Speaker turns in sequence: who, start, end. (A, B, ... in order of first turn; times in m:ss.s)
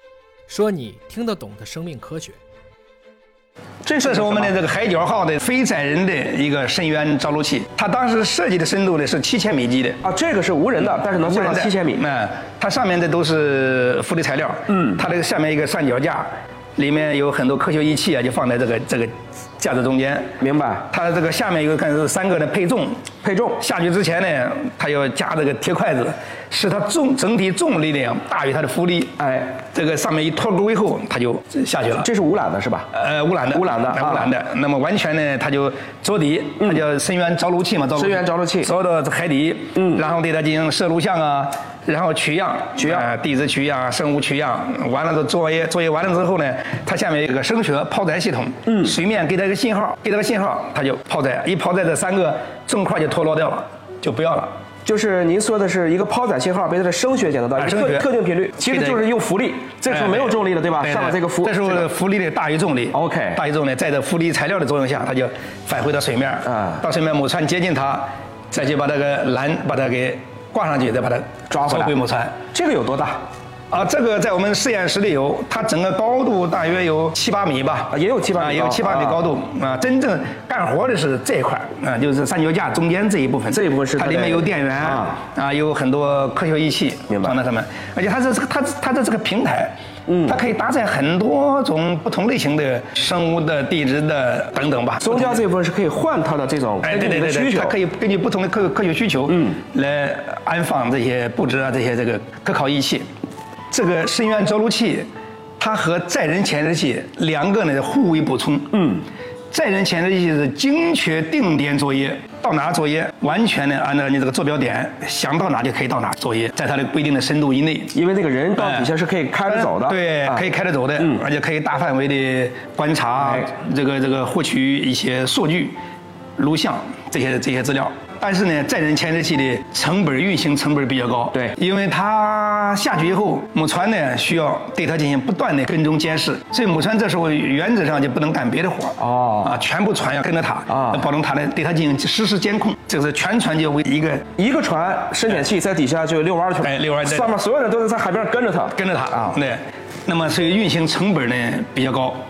0:00.5-0:02.4 A
0:03.8-0:04.5 B
0:04.0-0:10.0 C
0:10.0-0:12.0 B
0:11.1-0:20.3 C
0:20.4-0:20.9 B
0:20.9-0:23.0 C
0:23.2-0:23.6 B
0:23.6-0:29.1 C
0:29.2-0:29.6 B
0:29.7-0:32.1 C
0:32.0-0:32.9 B
0:32.9-0:54.5 C
0:33.5-0:34.3 B
0:37.9-0:38.7 B
0:42.8-0:43.0 B
0:54.8-1:01.9 B
0:57.6-0:58.1 C
0:58.6-0:59.1 C
0:59.9-1:12.3 C
1:02.9-1:03.4 B
1:06.5-1:06.8 B
1:11.5-1:11.9 B
1:12.5-1:13.2 B
1:13.7-1:29.7 C
1:17.9-1:19.3 B
1:23.5-1:25.2 B
1:27.1-1:27.4 B
1:30.2-1:35.4 C
1:35.0-1:37.8 B
1:36.8-1:43.0 C
1:43.7-1:45.1 C
1:45.6-1:48.9 C
1:49.5-1:57.9 C
1:57.9-2:00.4 B
1:58.6-1:58.9 C
1:59.5-2:05.8 C
2:06.4-2:24.3 C
2:19.0-2:19.5 B
2:24.4-2:29.4 B
2:26.6-2:27.4 C
2:28.8-2:32.2 C